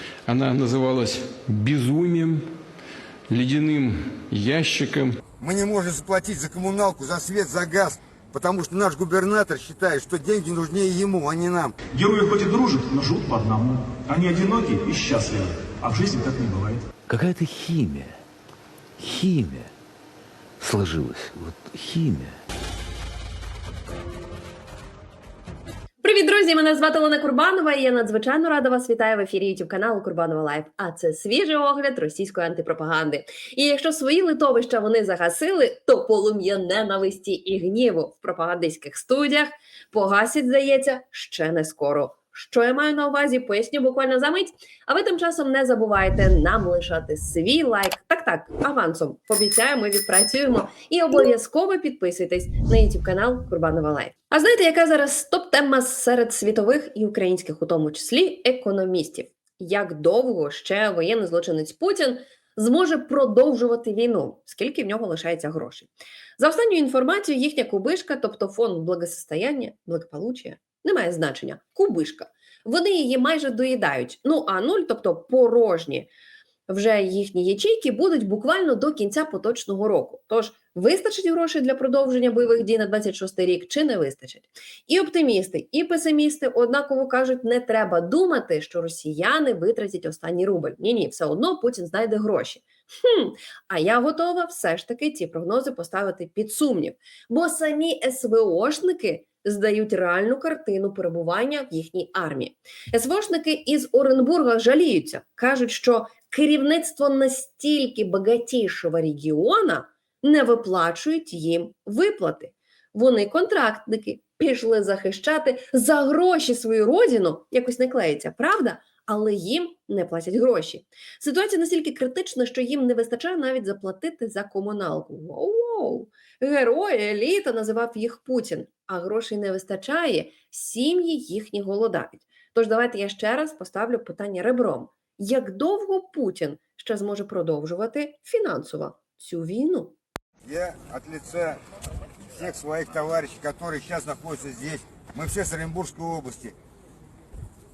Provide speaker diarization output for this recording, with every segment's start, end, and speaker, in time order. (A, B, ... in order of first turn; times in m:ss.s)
0:00.3-0:02.5 A
0:03.3-0:05.2 A
0:05.4-0:11.7 B
0:11.9-0:16.8 C
0:17.1-0:18.2 D
0:19.0-0:19.7 D
0:20.6-0:22.4 D
0:26.0-1:16.1 E
1:16.7-2:19.9 E
2:20.4-2:21.6 B
2:22.3-2:26.6 B